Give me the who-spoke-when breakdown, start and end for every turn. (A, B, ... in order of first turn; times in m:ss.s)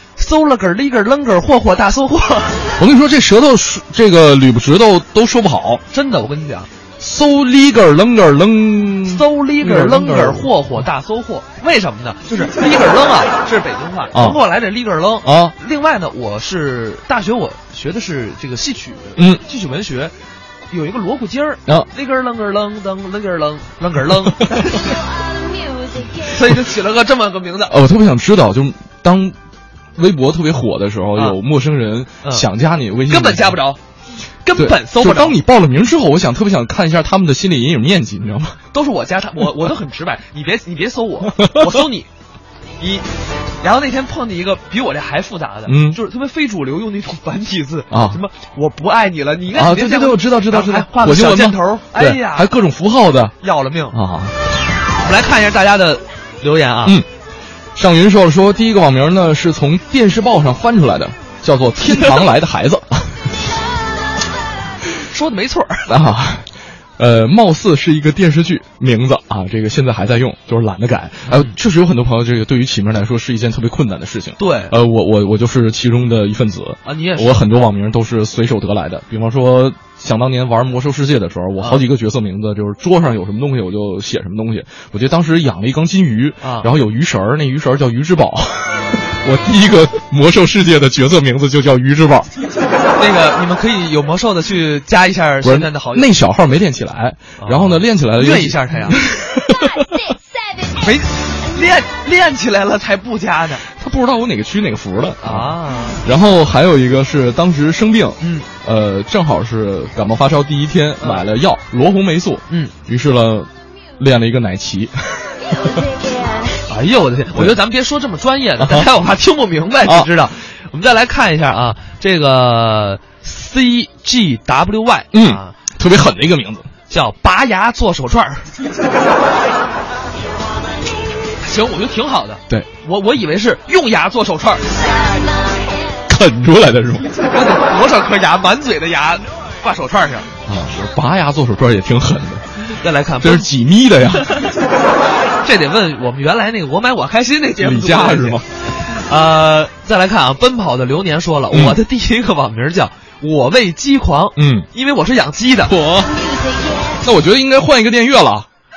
0:00.2-0:02.6 A
0:02.8-0:05.8 B
0:05.9-0:06.7 A
0:07.0-0:10.5 B
0:09.1-0:20.1 A
0:14.1-0:14.4 B
0:15.2-0:15.5 B
0:20.7-0:24.8 A
0:26.3-0:27.8 A
0:27.7-0:29.4 B
0:30.0-0:33.6 B
0:33.1-0:33.8 A
0:34.4-0:35.4 A
0:34.6-0:38.6 B
0:38.7-0:42.1 A
0:41.4-0:41.7 B
0:42.8-0:43.0 A
0:43.6-0:52.5 A
0:45.7-0:46.0 B
0:47.9-0:48.2 B
0:49.5-0:53.3 B
0:53.4-0:54.0 A
0:53.9-0:54.3 B
0:55.0-0:57.0 A
0:57.8-1:03.1 B
1:05.1-1:05.9 A
1:05.9-1:32.3 B
1:11.3-1:11.6 A
1:14.4-1:14.7 A
1:16.8-1:17.5 A
1:26.4-1:26.7 A
1:33.0-1:36.1 A
1:35.4-1:40.2 B
1:37.4-1:39.4 A
1:40.7-1:43.6 A
1:43.7-1:55.3 B
1:45.2-1:46.0 A
1:48.2-1:48.5 A
1:51.0-1:51.3 A
1:56.7-2:05.6 A
1:58.6-1:58.9 B
2:05.1-2:06.7 B
2:06.9-2:08.5 A
2:11.4-2:14.6 A
2:16.1-2:17.1 B
2:17.3-2:20.3 A
2:20.5-2:22.4 B
2:22.8-2:23.5 A
2:23.2-2:24.3 B
2:24.2-2:24.5 A
2:25.4-2:35.8 A
2:27.6-2:28.4 B
2:31.5-2:31.8 B
2:34.4-2:34.7 B
2:35.7-2:36.1 B
2:37.0-2:38.5 B